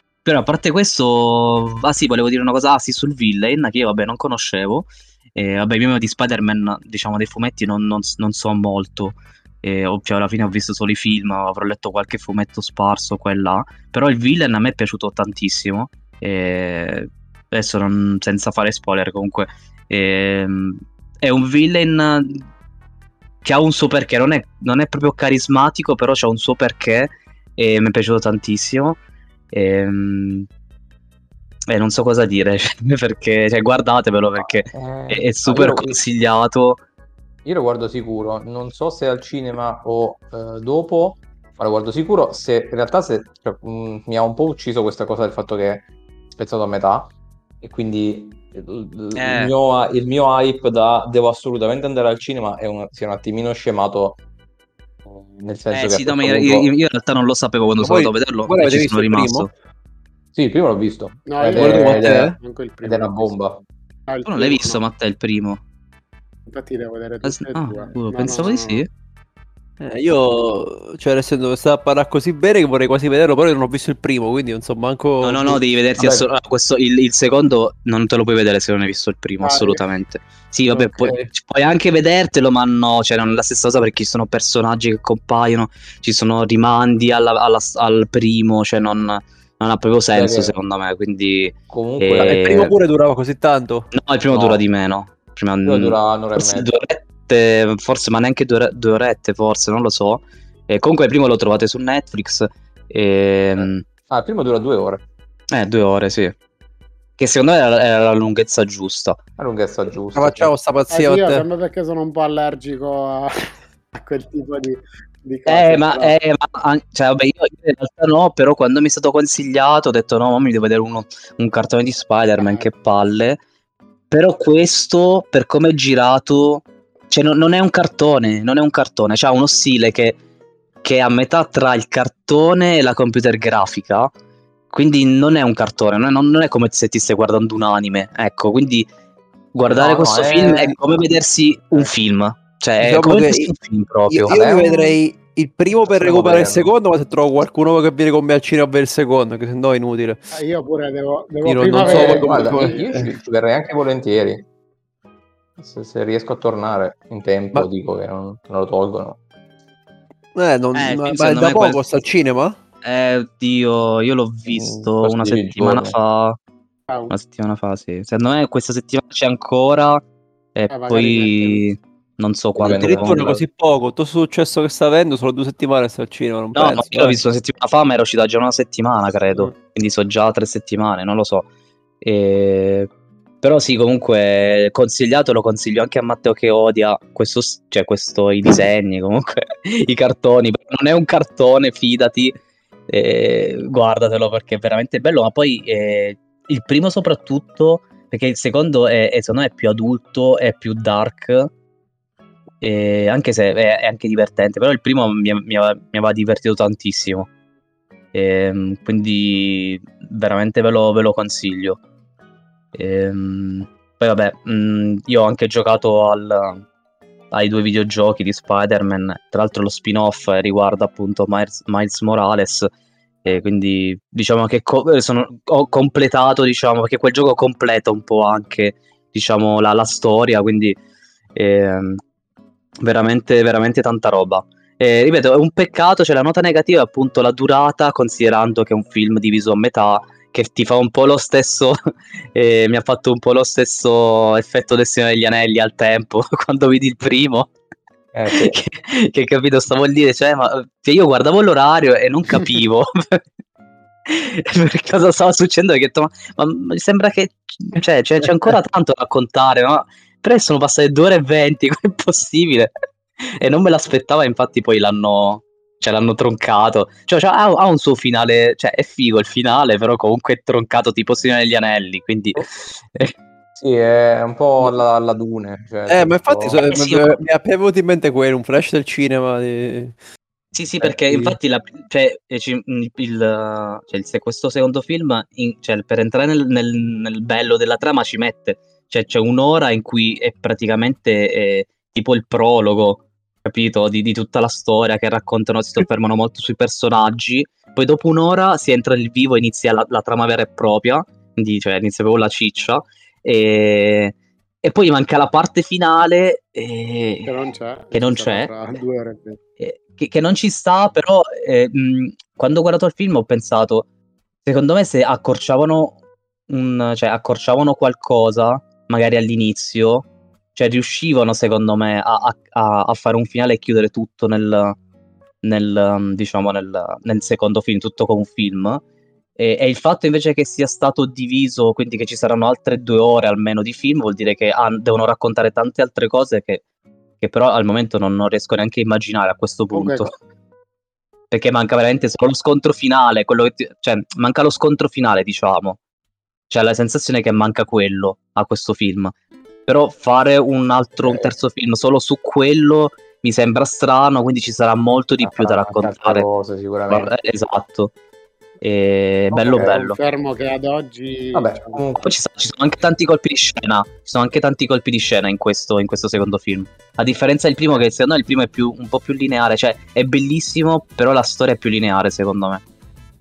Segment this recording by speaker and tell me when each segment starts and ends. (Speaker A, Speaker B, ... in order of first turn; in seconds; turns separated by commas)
Speaker A: 0.2-22.4, Speaker A: 23.4-29.0, Speaker A: 29.5-30.5, Speaker A: 31.7-36.8, Speaker B: 34.4-36.0, Speaker B: 37.4-54.2, Speaker A: 49.1-49.5, Speaker B: 55.0-56.7, Speaker A: 55.7-59.5, Speaker C: 57.8-59.5, Speaker B: 60.3-62.3, Speaker D: 61.3-63.4, Speaker C: 61.5-62.4, Speaker B: 62.8-63.6, Speaker D: 64.1-64.8, Speaker A: 64.2-65.6, Speaker D: 66.5-68.8, Speaker A: 67.2-68.9, Speaker C: 69.8-75.6, Speaker A: 75.2-92.7, Speaker B: 76.0-76.3, Speaker D: 79.4-79.8, Speaker B: 80.7-81.2, Speaker B: 90.1-90.5, Speaker B: 91.7-92.5, Speaker C: 92.2-93.9, Speaker A: 93.9-103.8, Speaker B: 94.3-94.6, Speaker B: 95.7-96.7, Speaker B: 103.5-105.0, Speaker A: 105.5-106.3, Speaker A: 107.2-109.2, Speaker B: 109.4-110.5, Speaker C: 110.1-111.5, Speaker D: 110.9-116.1, Speaker A: 115.5-123.4, Speaker D: 122.4-122.7, Speaker A: 124.1-130.2, Speaker A: 130.8-134.1, Speaker A: 134.7-138.9, Speaker A: 139.5-144.3, Speaker B: 139.6-140.8, Speaker C: 142.8-143.5, Speaker C: 144.1-150.2, Speaker B: 144.3-144.9, Speaker B: 145.8-146.7, Speaker D: 150.3-152.9, Speaker C: 151.4-153.1, Speaker B: 151.8-154.4, Speaker B: 155.6-159.2, Speaker C: 160.3-162.6, Speaker A: 160.7-161.8, Speaker A: 162.8-166.4, Speaker B: 164.5-165.9, Speaker D: 166.9-167.1, Speaker A: 167.1-170.0, Speaker A: 170.6-173.4, Speaker D: 170.7-171.7, Speaker B: 172.6-173.2, Speaker C: 172.7-177.2, Speaker A: 176.5-181.5, Speaker A: 182.0-182.9, Speaker A: 183.4-192.3, Speaker A: 192.9-201.5, Speaker A: 202.6-207.3, Speaker A: 208.1-211.8, Speaker A: 212.7-216.6, Speaker A: 217.3-222.7, Speaker A: 223.2-230.8, Speaker A: 231.3-232.0, Speaker A: 232.8-241.8, Speaker A: 242.3-247.5, Speaker B: 248.1-248.6, Speaker A: 248.3-253.2, Speaker A: 254.1-273.1, Speaker B: 273.6-276.6, Speaker C: 275.9-279.9, Speaker A: 276.7-277.2, Speaker A: 280.5-307.4, Speaker B: 280.8-281.4, Speaker D: 307.2-309.4, Speaker A: 307.9-308.6, Speaker A: 309.6-313.9, Speaker A: 314.4-315.9, Speaker A: 316.5-324.8, Speaker A: 325.4-328.8, Speaker A: 329.4-336.6, Speaker A: 337.2-340.1, Speaker D: 339.7-340.1, Speaker A: 341.3-345.8, Speaker A: 346.5-349.1, Speaker A: 349.6-356.3, Speaker D: 351.0-351.3, Speaker B: 355.2-357.1, Speaker A: 356.9-357.9, Speaker A: 358.6-360.0, Speaker D: 359.3-361.9, Speaker B: 361.3-362.1, Speaker A: 362.0-372.6